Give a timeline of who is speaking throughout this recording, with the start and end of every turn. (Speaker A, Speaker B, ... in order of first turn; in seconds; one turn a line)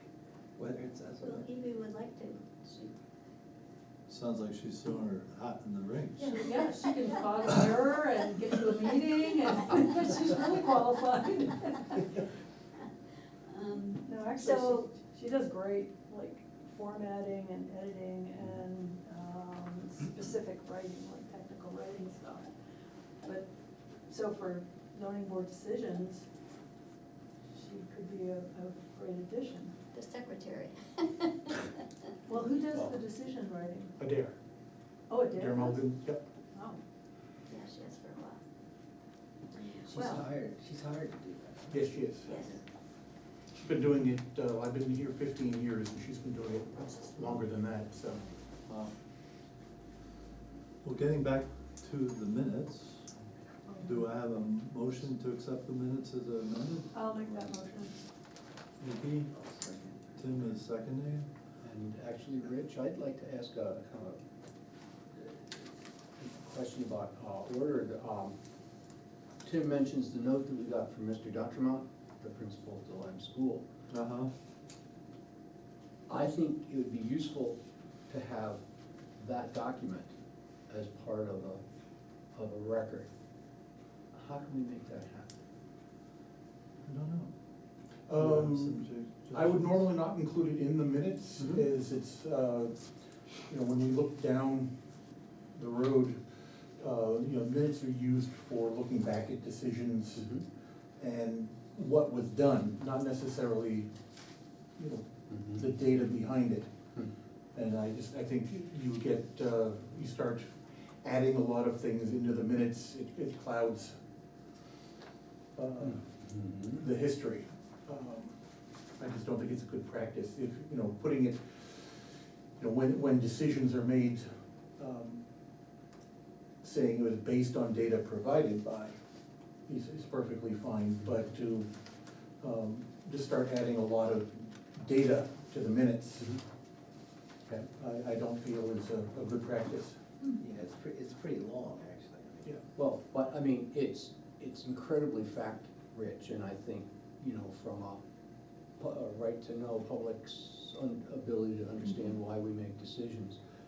Speaker A: 0.6-1.5
Speaker B: 1.2-2.9
Speaker C: 4.1-6.3
Speaker B: 6.2-7.1
Speaker D: 6.2-12.2
Speaker B: 13.5-14.9
Speaker D: 14.1-22.5
Speaker D: 23.2-23.5
Speaker D: 24.1-26.3
Speaker D: 27.5-29.8
Speaker B: 29.9-31.7
Speaker D: 32.3-33.9
Speaker E: 34.0-34.4
Speaker D: 35.1-35.9
Speaker E: 35.4-36.2
Speaker D: 36.5-36.8
Speaker B: 37.5-38.4
Speaker B: 39.6-40.2
Speaker A: 39.8-41.9
Speaker E: 41.7-42.4
Speaker B: 42.2-42.6
Speaker E: 43.6-48.3
Speaker C: 50.8-53.1
Speaker D: 53.7-54.1
Speaker C: 53.8-57.5
Speaker D: 56.9-58.0
Speaker C: 58.8-59.4
Speaker A: 59.7-60.0
Speaker C: 60.1-61.3
Speaker F: 61.6-64.2
Speaker F: 65.2-65.6
Speaker F: 66.2-68.3
Speaker F: 69.4-73.6
Speaker C: 73.9-74.3
Speaker F: 76.1-78.6
Speaker F: 79.2-80.1
Speaker F: 80.7-81.6
Speaker F: 82.3-83.1
Speaker F: 84.1-85.4
Speaker C: 86.8-87.3
Speaker E: 88.1-92.7
Speaker C: 88.1-89.8
Speaker F: 91.4-91.7
Speaker E: 93.5-94.7
Speaker E: 95.5-96.2
Speaker E: 96.8-100.3
Speaker E: 101.0-103.9
Speaker E: 104.8-106.7
Speaker F: 105.3-106.1
Speaker E: 107.5-114.0
Speaker E: 115.6-116.0
Speaker F: 115.8-116.8
Speaker E: 116.8-118.3
Speaker E: 119.0-122.0
Speaker E: 122.6-124.3
Speaker E: 124.8-125.2
Speaker E: 126.6-129.0
Speaker E: 129.7-131.7
Speaker E: 132.4-136.3
Speaker E: 137.8-140.0
Speaker A: 140.4-142.6
Speaker F: 142.8-148.0
Speaker F: 148.8-153.4